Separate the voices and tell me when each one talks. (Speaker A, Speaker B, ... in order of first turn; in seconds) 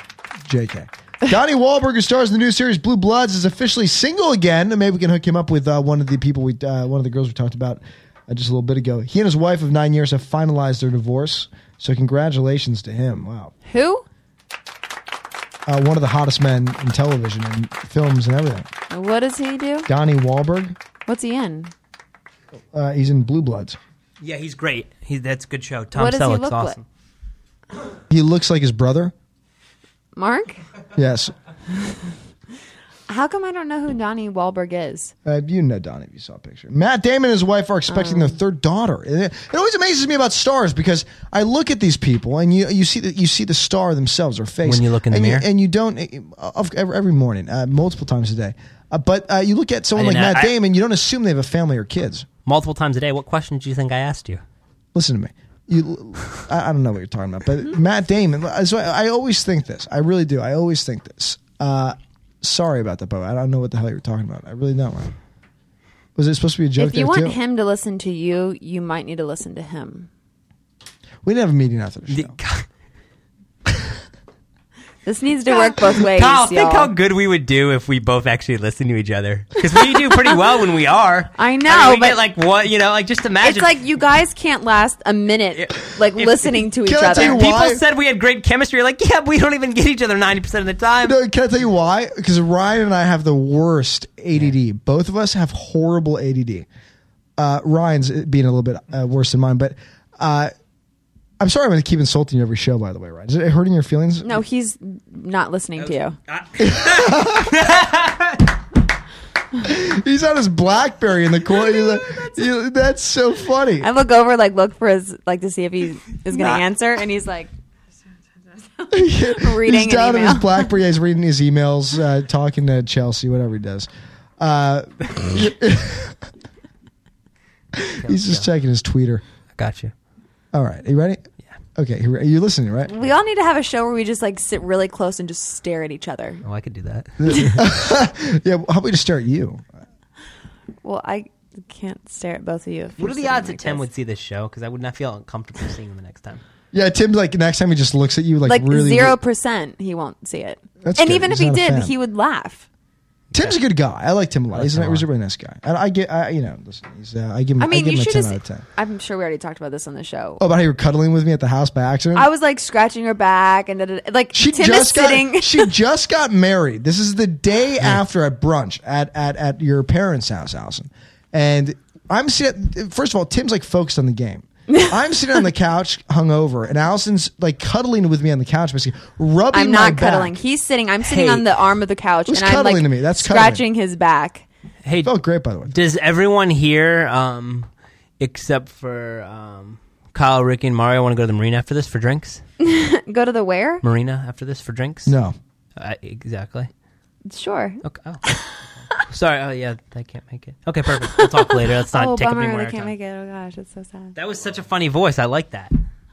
Speaker A: 0.4-13.5, 15.7-18.7, 19.9-20.8, 22.7-23.8, 28.1-29.1, 30.9-31.3, 35.2-52.3, 54.9-65.1, 66.2-67.4, 71.2-72.3, 86.8-87.8, 91.0-96.7, 97.4-100.5, 101.4-104.4, 106.6-107.9, 109.6-113.9, 118.9-123.9, 124.4-126.3, 127.7-129.2, 130.5-131.2, 131.8-132.9, 137.2-139.7, 146.7-149.2, 150.8-151.9, 153.3-158.6, 160.4-162.3, 164.3-180.3, 182.3-183.6, 185.0-185.7, 195.1-195.3
Speaker B: 13.6-14.0, 18.9-19.9, 21.1-21.7, 25.9-26.8, 30.1-30.6, 33.1-35.1, 37.9-38.4, 66.8-70.1, 75.0-76.9, 81.4-82.2, 83.4-87.4, 104.2-106.2, 113.8-117.5, 118.8-120.6, 132.9-136.4, 140.8-143.8, 148.4-152.7, 157.6-160.4, 162.1-165.7, 174.7-174.9, 179.5-184.4, 192.6-193.8, 197.3-198.4, 201.1-204.1
Speaker C: 24.2-26.8, 44.6-45.5, 49.9-50.5, 52.5-54.4, 72.1-72.7, 75.7-83.8, 85.5-86.6, 87.1-91.2, 105.8-108.5, 128.0-128.4, 129.6-129.9, 136.4-137.6, 143.0-146.4, 154.5-155.1, 181.0-181.5, 184.8-185.1, 185.7-187.7, 188.2-192.4, 193.8-195.1, 195.8-196.7, 197.8-198.2, 198.9-202.9, 204.1-205.7